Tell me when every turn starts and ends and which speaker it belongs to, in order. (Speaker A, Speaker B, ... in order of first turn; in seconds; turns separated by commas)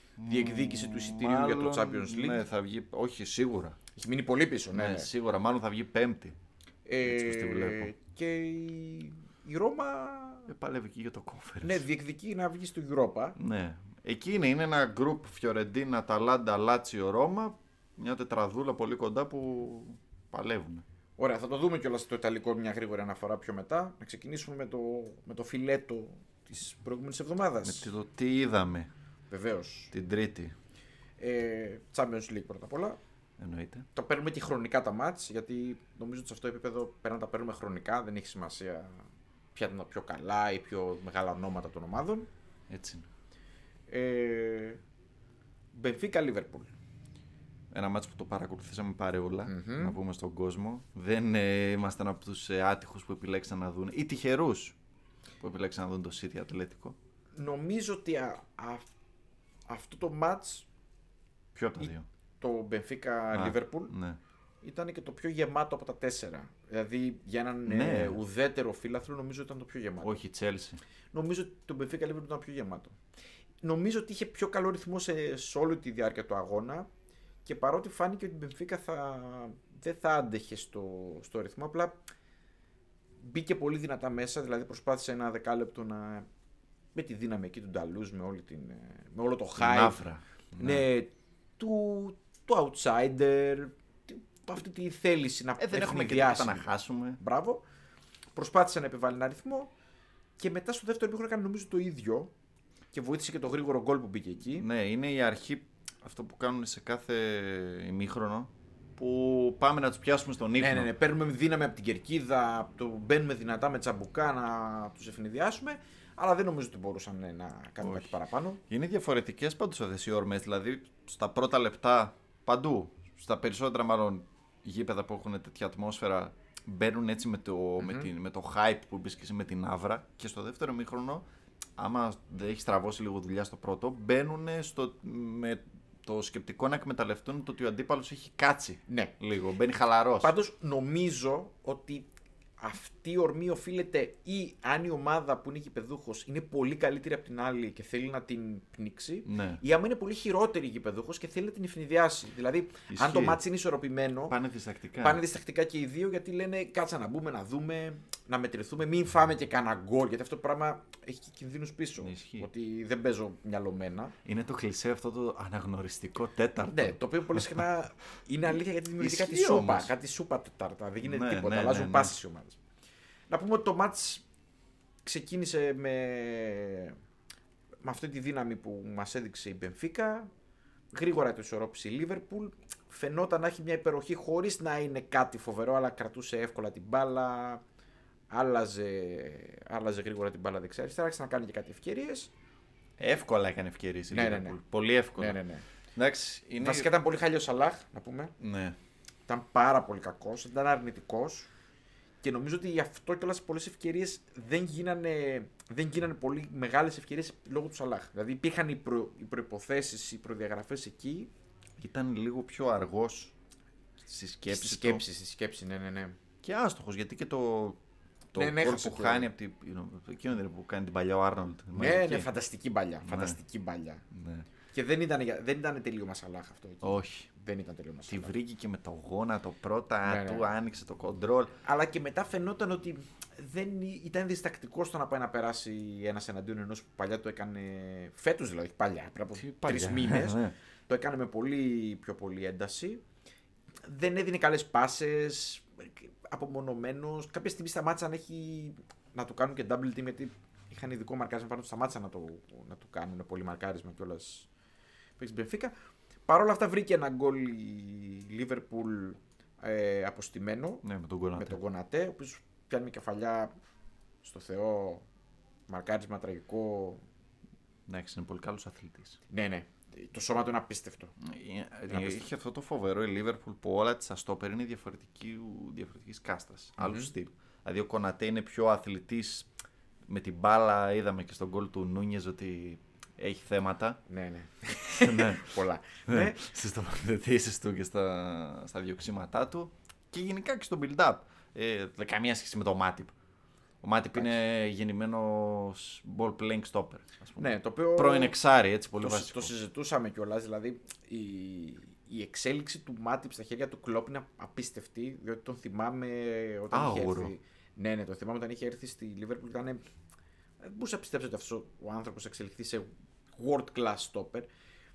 Speaker A: 0.2-3.8, Speaker B: 0.2-2.5, Speaker B: 3.9-5.1, Speaker A: 4.7-6.4, Speaker B: 6.8-10.5, Speaker A: 7.0-7.9, Speaker A: 10.5-11.8, Speaker B: 11.6-13.4, Speaker A: 13.4-20.8, Speaker B: 21.2-27.9, Speaker A: 27.6-28.9, Speaker B: 29.3-29.9, Speaker A: 29.9-30.5, Speaker B: 31.2-33.0, Speaker A: 33.4-33.9, Speaker B: 33.9-39.0, Speaker B: 39.5-42.3, Speaker A: 42.7-43.1, Speaker B: 43.9-44.8, Speaker B: 45.7-46.7, Speaker A: 47.7-54.8, Speaker B: 49.4-50.0, Speaker A: 55.4-57.0, Speaker B: 57.4-58.9, Speaker B: 59.7-60.6, Speaker A: 61.5-62.0, Speaker B: 61.8-63.9, Speaker A: 63.3-64.2, Speaker B: 64.6-70.2, Speaker A: 67.7-68.2, Speaker A: 70.0-70.8, Speaker B: 71.1-73.0, Speaker B: 73.6-76.9, Speaker B: 77.4-82.0, Speaker B: 83.2-86.3, Speaker B: 86.9-90.0, Speaker A: 89.6-90.9, Speaker B: 90.6-97.6, Speaker A: 95.6-97.2, Speaker B: 98.3-99.7, Speaker B: 100.4-102.3, Speaker B: 102.9-104.7, Speaker A: 104.6-110.9, Speaker B: 110.6-118.6, Speaker A: 117.8-118.2, Speaker A: 118.7-131.2, Speaker B: 127.8-128.1, Speaker A: 131.8-140.3, Speaker B: 138.9-139.1, Speaker B: 140.2-154.3, Speaker A: 149.2-149.6, Speaker A: 152.9-153.4, Speaker A: 154.3-155.2, Speaker B: 155.0-164.2, Speaker A: 162.0-162.5, Speaker A: 164.2-167.7, Speaker B: 166.7-172.6, Speaker A: 168.5-169.9, Speaker A: 171.0-172.2, Speaker B: 173.3-174.2, Speaker B: 175.0-177.0, Speaker B: 177.8-180.3, Speaker B: 180.9-187.6, Speaker B: 188.3-192.3, Speaker A: 193.0-195.4, Speaker B: 194.1-194.6, Speaker B: 195.2-195.6, Speaker A: 195.9-196.9, Speaker B: 196.6-198.3, Speaker A: 198.4-198.8, Speaker B: 199.3-201.5, Speaker B: 202.2-211.3, Speaker A: 211.8-213.3, Speaker A: 214.0-215.0, Speaker B: 214.5-216.2, Speaker A: 216.4-217.8, Speaker A: 218.3-222.3, Speaker B: 218.3-219.3, Speaker B: 221.7-224.0, Speaker A: 223.0-223.4, Speaker A: 224.1-224.5, Speaker B: 224.7-228.3, Speaker A: 226.8-227.3, Speaker A: 228.1-231.6, Speaker B: 230.0-230.5, Speaker B: 231.6-243.0, Speaker A: 239.4-240.5, Speaker B: 243.8-254.5, Speaker B: 255.2-255.7, Speaker B: 256.3-263.5, Speaker A: 260.8-261.6, Speaker B: 264.2-265.1, Speaker B: 265.7-267.0, Speaker A: 267.9-269.2, Speaker B: 269.3-271.1, Speaker A: 271.2-279.5, Speaker B: 271.9-272.2, Speaker B: 276.8-277.1, Speaker A: 280.1-284.0, Speaker B: 284.1-286.4, Speaker A: 285.0-293.1, Speaker A: 293.8-299.5, Speaker B: 297.4-298.3, Speaker B: 299.0-309.8, Speaker A: 306.7-307.3, Speaker B: 310.6-314.5